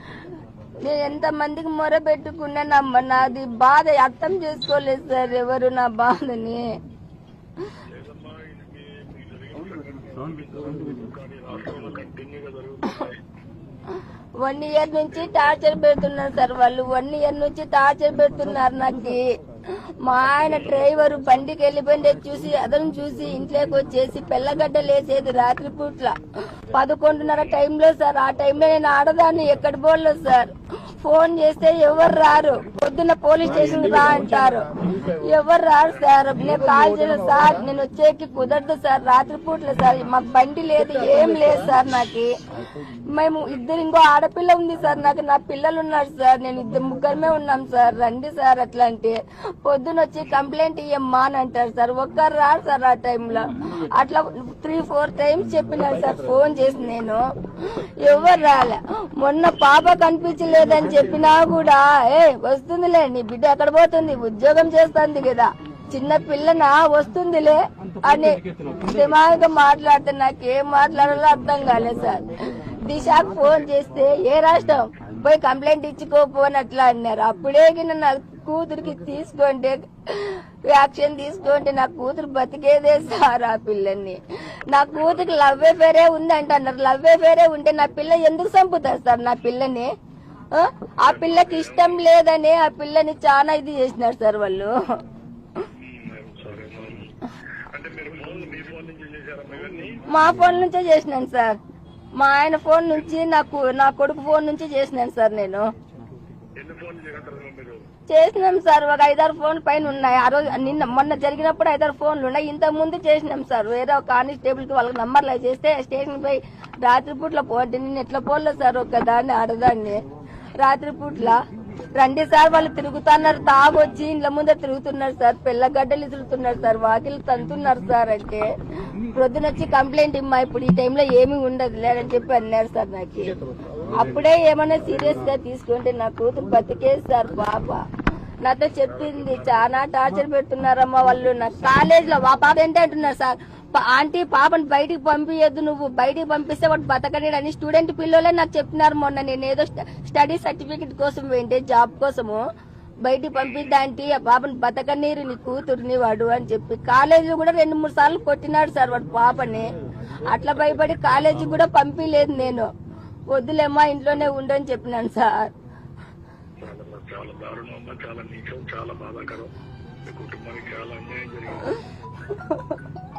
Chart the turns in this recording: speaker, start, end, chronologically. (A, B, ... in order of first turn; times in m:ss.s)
0:00.8-0:06.6 A
0:07.8-0:13.2 B
0:14.4-0:19.3 A
0:15.2-0:15.5 B
0:20.0-0:26.2 A
0:26.7-0:42.3 A
0:42.8-0:57.2 A
0:57.8-1:12.3 A
1:12.8-1:24.2 A
1:24.7-1:29.9 A
1:24.9-1:25.5 B
1:30.5-1:34.7 A
1:31.0-1:32.0 B
1:35.7-1:37.1 B
1:37.7-1:40.0 B
1:40.1-1:41.5 A
1:42.2-1:45.6 A
1:46.6-1:47.8 B
1:48.1-2:00.0 A
2:00.6-2:01.4 A
2:02.0-2:08.5 A
2:09.1-2:13.4 A
2:13.9-2:17.8 A
2:18.4-2:32.4 A
2:18.8-2:19.8 B
2:33.0-2:39.7 A
2:33.3-2:33.7 B
2:40.3-2:42.7 A
2:40.6-2:41.0 B
2:43.3-2:45.5 A
2:46.6-2:49.5 B
2:50.1-2:51.8 B
2:52.3-2:52.7 A